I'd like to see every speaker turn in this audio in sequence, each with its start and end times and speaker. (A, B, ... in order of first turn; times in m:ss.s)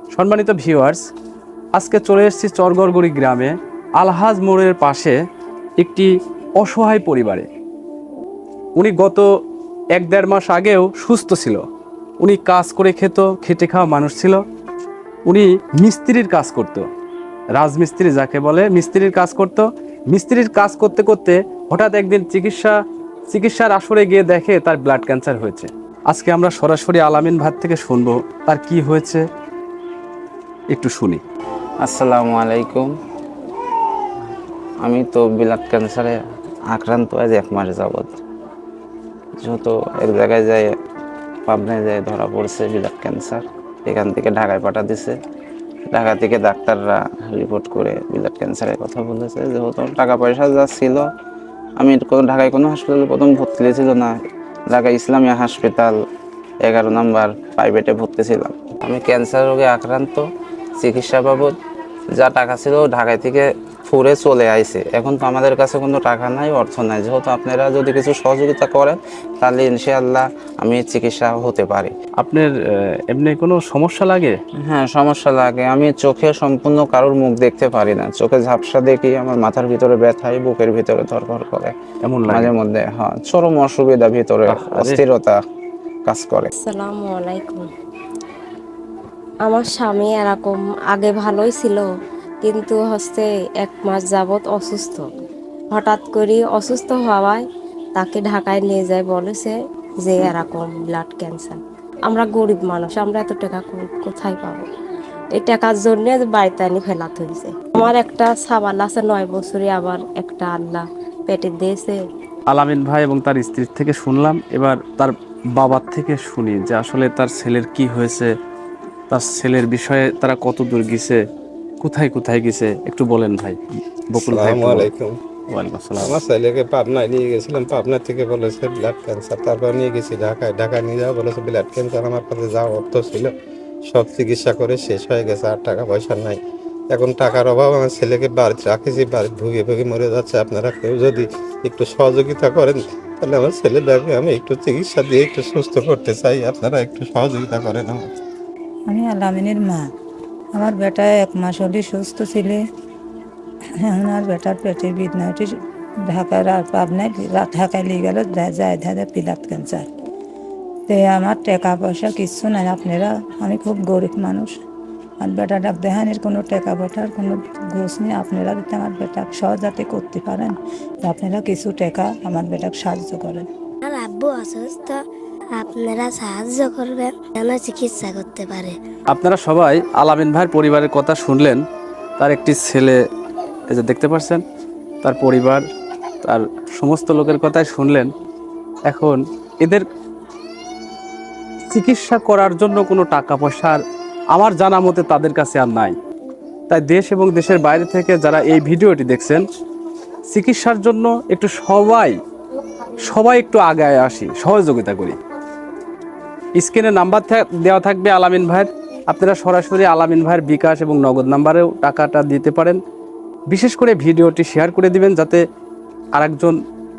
0:00.1-0:01.1 A
0:01.7-0:05.2 A
0:05.8-0:07.5 A
0:08.8-0:09.2 A
0:09.9-0:11.6 A
0:12.2-0:14.4 A
0:15.2-0:16.9 A
0:17.5-0:22.8 A
0:23.3-0:29.2 A
0:30.7-0:31.2 A
0:31.8-0:32.9 B
0:34.8-0:36.2 B
0:36.7-0:38.2 B
0:39.4-0:40.7 B
0:41.5-0:45.1 B
0:45.9-0:51.0 B
0:51.8-0:54.1 B
0:54.7-0:55.9 B
0:56.6-1:00.2 B
1:00.8-1:01.5 B
1:02.1-1:11.9 B
1:12.2-1:14.4 A
1:14.6-1:21.7 B
1:22.0-1:22.5 A
1:22.3-1:25.4 B
1:24.5-1:25.0 A
1:26.0-1:26.5 B
1:26.6-1:27.7 C
1:29.4-1:31.9 C
1:32.4-1:35.1 C
1:35.7-1:37.4 C
1:38.0-1:44.6 C
1:45.3-1:52.0 C
1:52.5-1:58.3 A
1:59.1-2:01.2 A
2:01.8-2:03.6 A
2:04.1-2:04.9 A
2:04.2-2:05.2 D
2:05.5-2:06.2 A
2:06.0-2:13.3 D
2:13.9-2:16.4 D
2:16.9-2:28.2 D
2:28.9-2:29.8 E
2:30.5-2:32.6 E
2:33.8-2:35.5 E
2:36.1-2:39.9 E
2:40.9-2:44.6 E
2:45.2-2:50.5 E
2:51.0-2:53.5 E
2:53.8-2:55.0 F
2:55.5-2:58.8 F
2:59.1-3:01.6 A
3:02.2-3:03.0 A
3:03.7-3:04.4 A
3:05.0-3:05.6 A
3:06.2-3:08.1 A
3:08.8-3:09.8 A
3:11.7-3:13.8 A
3:14.3-3:16.0 A
3:16.7-3:19.4 A
3:20.3-3:22.2 A
3:23.0-3:25.2 A
3:26.6-3:32.8 A
3:33.5-3:35.4 A
3:36.1-3:36.6 A